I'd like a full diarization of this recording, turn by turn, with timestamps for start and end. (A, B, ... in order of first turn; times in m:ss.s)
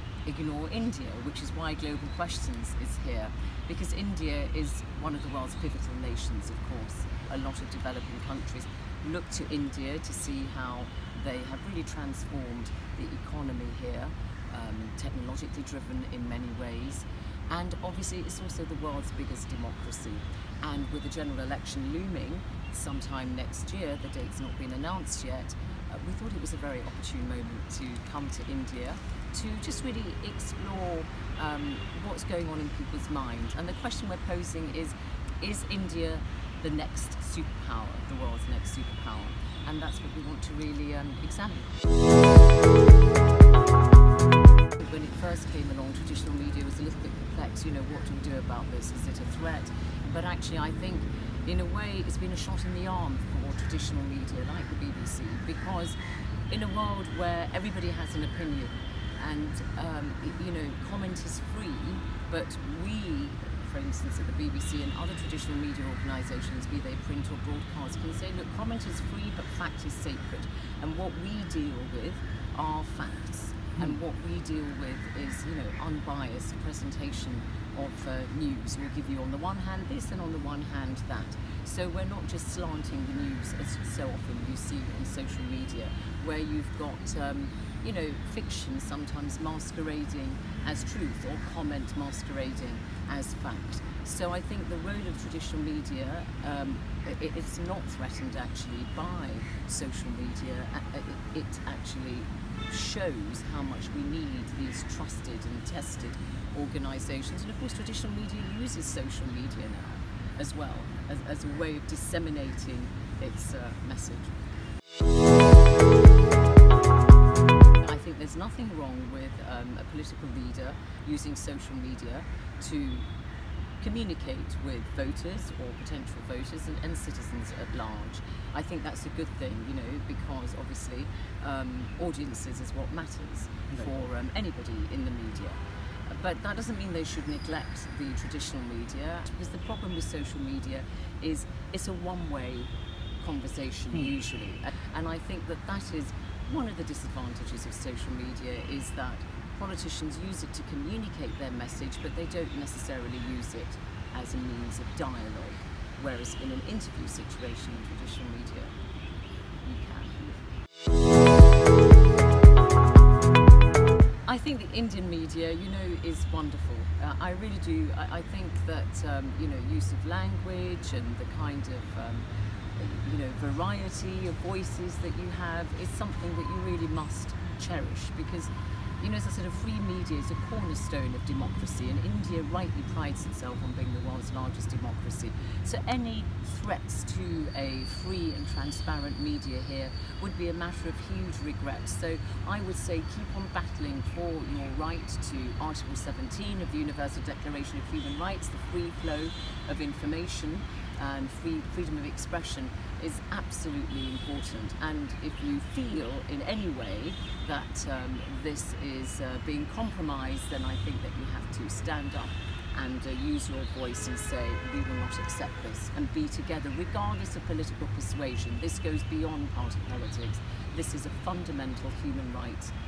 0:00.2-0:41.8 A
0:44.8-0:56.0 A
0:56.5-1:54.3 A
1:57.8-2:03.1 A
2:03.8-2:38.7 A
2:39.6-2:40.4 A
2:44.3-3:42.7 A